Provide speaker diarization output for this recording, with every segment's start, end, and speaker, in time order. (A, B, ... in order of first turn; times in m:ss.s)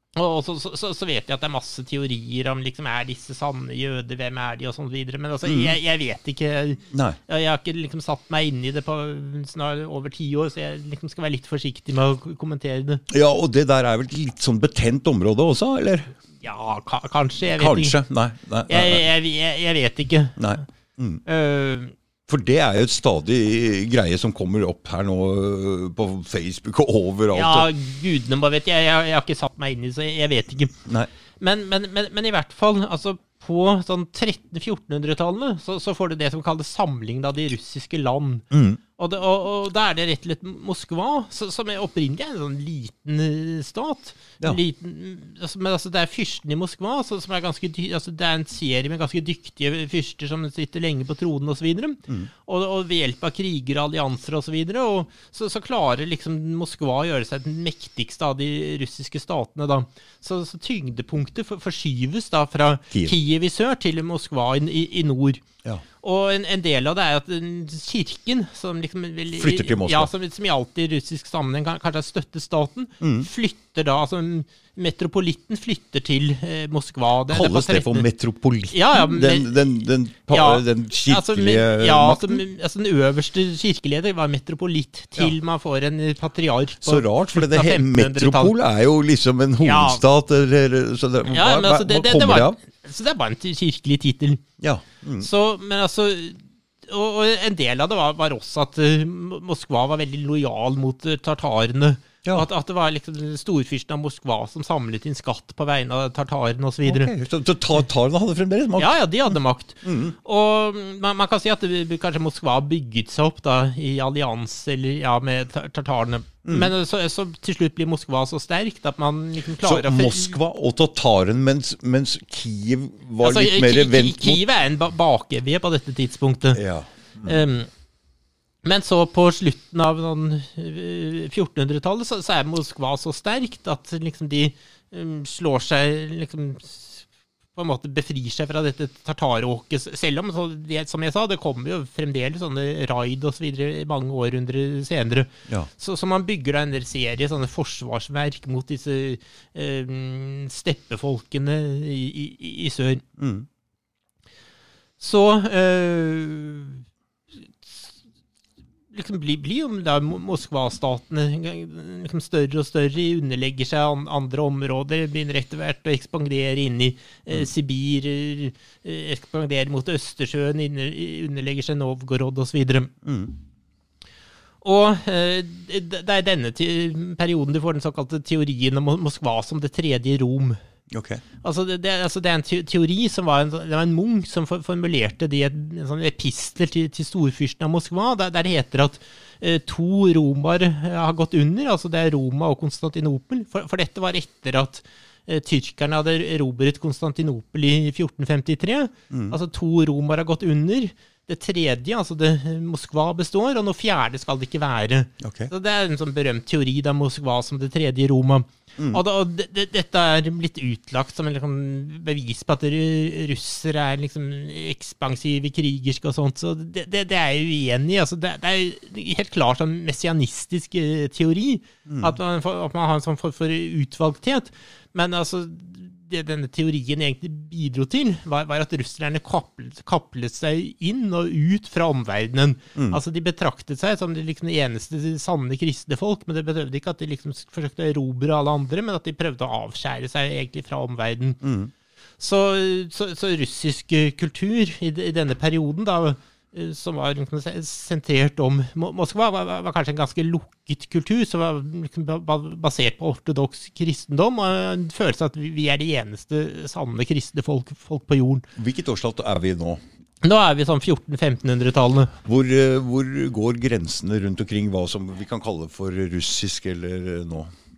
0:00.2-0:13.0 A
0:05.4-0:05.8 B
0:06.9-0:07.2 B
0:13.1-0:16.1 B
0:16.4-0:18.0 A
0:17.5-0:19.0 B
0:18.7-0:20.6 A
0:20.4-0:21.2 B
0:21.3-0:21.9 A
0:22.3-0:27.7 B
0:27.3-0:30.8 A
0:31.4-0:38.4 A
0:38.5-0:38.8 B
0:39.0-1:05.4 A
1:06.0-1:18.1 A
1:09.3-1:10.1 B
1:13.0-1:13.3 B
1:17.3-1:22.4 B
1:18.7-1:19.7 A
1:20.3-1:28.5 A
1:26.8-1:32.6 B
1:29.6-1:30.0 A
1:31.3-1:34.4 A
1:34.6-1:35.3 B
1:35.2-1:47.1 A
1:46.8-1:49.0 B
1:48.8-2:00.4 A
1:49.8-1:50.1 B
1:56.4-1:56.7 B
1:59.6-2:04.4 B
2:03.2-2:06.6 A
2:06.5-2:07.4 B
2:07.2-2:07.7 A
2:08.6-2:33.0 A
2:33.2-2:33.5 B
2:35.0-2:36.8 A
2:37.6-2:37.9 A
2:38.9-2:52.9 A
2:53.0-2:53.4 B
2:54.6-3:00.6 A
3:00.9-3:01.2 B
3:01.4-4:01.4 A
3:19.1-3:19.4 B
3:25.2-3:25.5 B
3:41.9-3:42.2 B
4:01.4-4:01.7 B
4:02.2-4:18.5 A
4:18.6-4:19.8 B
4:20.2-4:22.1 A
4:22.2-4:27.5 B